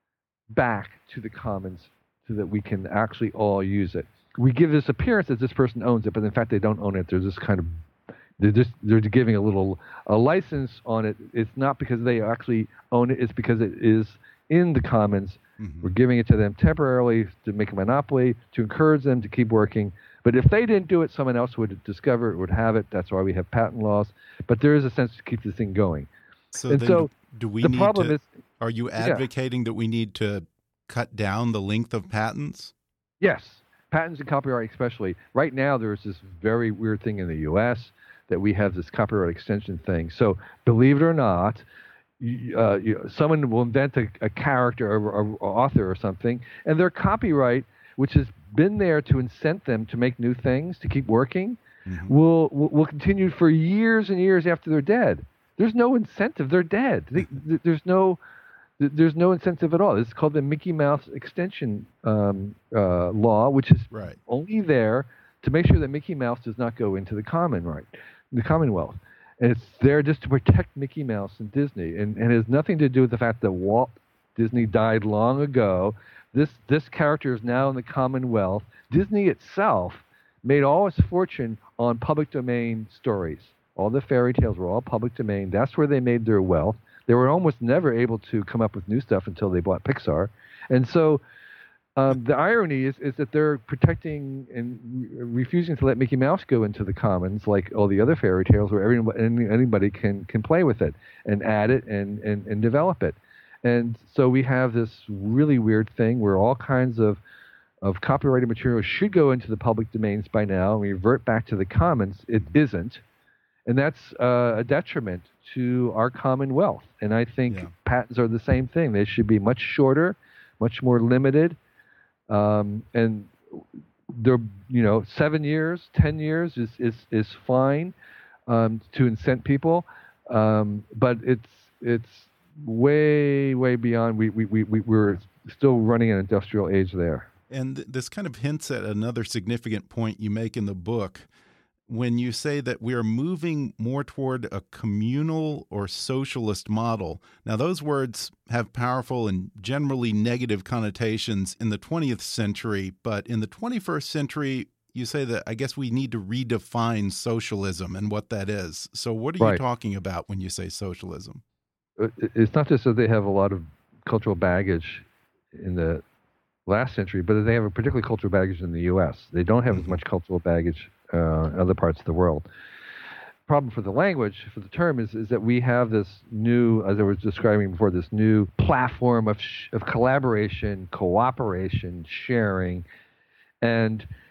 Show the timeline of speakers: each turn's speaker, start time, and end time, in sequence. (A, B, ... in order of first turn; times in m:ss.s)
0:00.5-0:07.8 A
0:08.4-0:26.1 A
0:15.6-0:15.9 B
0:26.5-0:32.7 B
0:26.7-0:27.1 A
0:27.6-0:28.2 A
0:29.0-0:29.2 A
0:33.2-0:41.6 A
0:42.2-0:58.2 A
0:51.9-0:52.1 B
0:58.8-1:31.2 A
1:03.9-1:04.2 B
1:32.0-1:47.2 A
1:47.8-1:53.0 A
1:53.7-2:01.6 A
2:02.3-2:07.9 A
2:08.5-2:17.3 A
2:17.5-2:21.3 B
2:21.9-2:41.4 B
2:42.0-2:46.0 A
2:46.7-2:52.4 A
2:49.7-2:50.0 B
2:53.5-3:02.8 A
3:03.6-3:04.0 A